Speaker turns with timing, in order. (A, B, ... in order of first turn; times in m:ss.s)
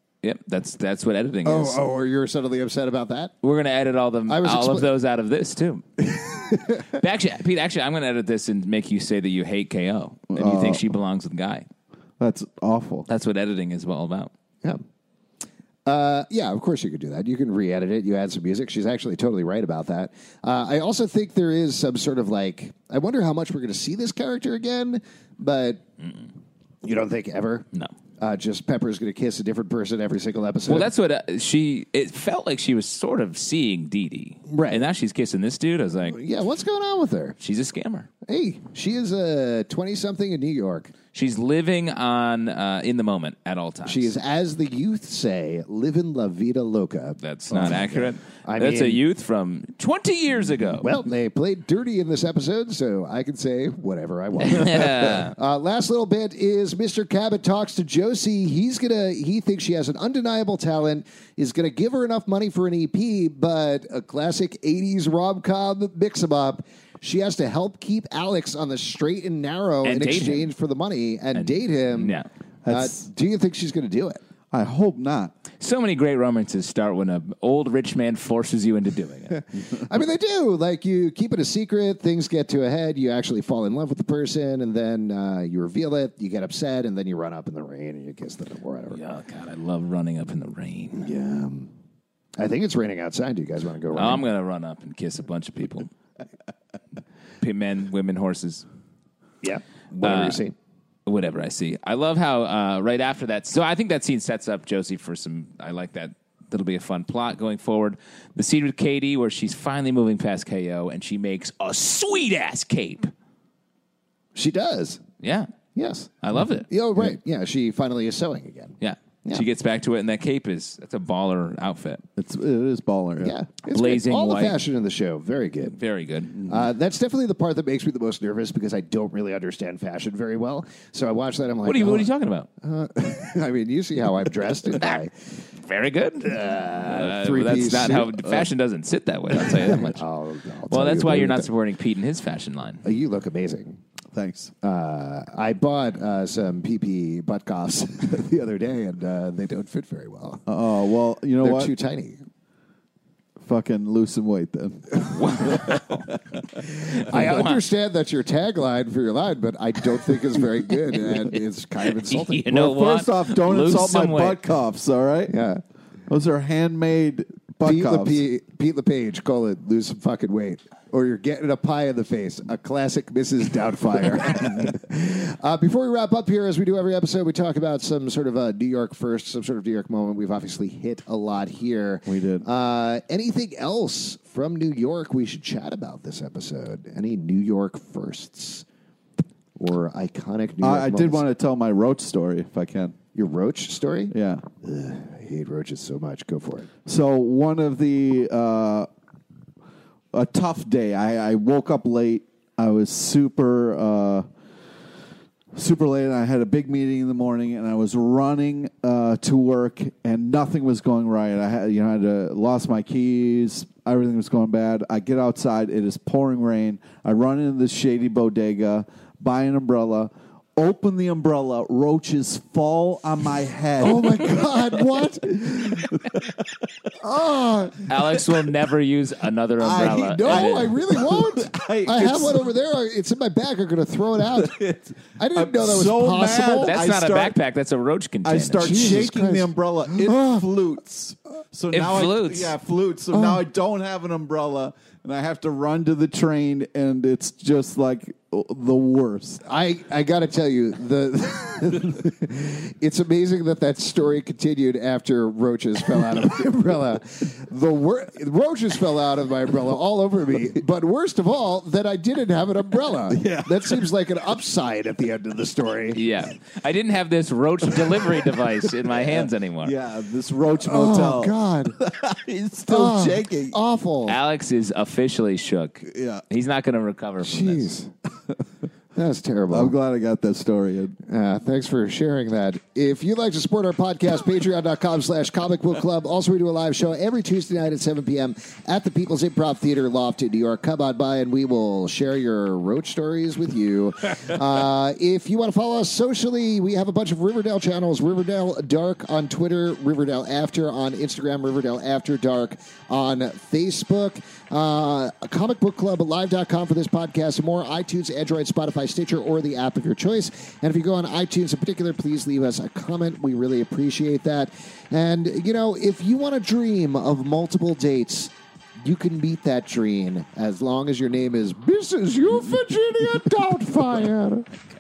0:00.2-0:01.8 A
0:01.4-0:03.3 B
0:03.4-0:05.8 A
0:04.3-0:04.9 B
0:06.1-0:06.8 B
0:06.6-0:11.7 A
0:10.3-0:10.8 C
0:12.2-0:13.1 C
0:13.1-0:14.3 A
0:15.9-0:25.8 B
0:26.8-0:27.7 B
0:28.2-0:30.9 B
0:30.7-0:36.2 A
0:34.5-0:34.8 B
0:36.1-0:37.4 B
0:37.4-0:38.1 A
0:38.3-0:40.9 B
0:41.1-0:44.1 A
0:43.9-0:49.0 B
0:47.2-0:50.9 A
0:50.8-1:14.2 B
0:54.4-0:55.3 A
1:09.8-1:10.5 A
1:11.4-1:12.3 A
1:12.6-1:13.0 C
1:14.5-1:15.3 C
1:15.6-1:19.4 A
1:19.4-1:29.0 B
1:28.9-1:31.1 A
1:31.0-1:31.7 B
1:32.4-1:34.2 B
1:34.0-1:35.9 A
1:37.4-1:38.6 A
1:39.4-1:40.6 B
1:40.0-1:40.4 A
1:41.1-1:53.1 A
1:54.4-1:55.0 B
1:55.2-1:55.5 A
1:55.8-1:56.1 B
1:56.2-1:56.7 A
1:56.7-1:59.4 B
1:58.8-2:02.0 A
2:02.2-2:03.4 C
2:03.2-2:05.8 B
2:03.7-2:04.6 A
2:05.7-2:06.4 A
2:06.4-2:12.1 B
2:11.6-2:12.5 A
2:12.6-2:15.1 B
2:14.7-2:15.0 A
2:15.6-2:20.0 A
2:16.2-2:18.1 B
2:17.8-2:18.5 C
2:19.4-2:21.5 B
2:20.7-2:22.8 A
2:22.8-2:23.8 B
2:24.1-2:24.5 C
2:24.6-2:30.5 B
2:30.5-2:31.7 C
2:31.4-2:32.2 B
2:33.4-2:36.2 C
2:35.0-2:37.6 A
2:36.7-2:42.5 B
2:41.9-2:44.4 A
2:42.5-2:45.3 C
2:45.3-2:45.6 B
2:46.1-2:48.2 C
2:47.6-3:08.6 B
3:02.1-3:02.4 C
3:09.6-3:11.3 B
3:10.6-3:13.0 C
3:13.2-3:16.7 B
3:14.1-3:14.4 C
3:16.9-3:18.9 C
3:20.1-3:24.3 C
3:25.5-3:44.9 C
3:43.8-3:46.1 B
3:46.0-3:46.4 C
3:47.0-3:47.9 B
3:47.9-3:50.7 A
3:49.6-3:52.4 C
3:49.8-3:54.6 B
3:54.3-3:57.4 C
3:55.2-3:56.8 B
3:56.6-3:58.7 A
3:58.2-4:09.4 C
3:58.6-4:00.4 B
4:01.7-4:02.5 A
4:03.1-4:03.4 B
4:09.4-4:26.0 B
4:23.1-4:23.9 C
4:26.0-4:29.7 A
4:27.8-4:28.3 C
4:28.8-4:33.6 C
4:30.6-4:31.8 B
4:32.7-4:34.2 B
4:34.1-4:37.7 A
4:35.9-4:36.2 C
4:37.2-4:37.9 B
4:39.0-4:39.7 B
4:39.5-4:41.0 C
4:41.1-5:24.5 B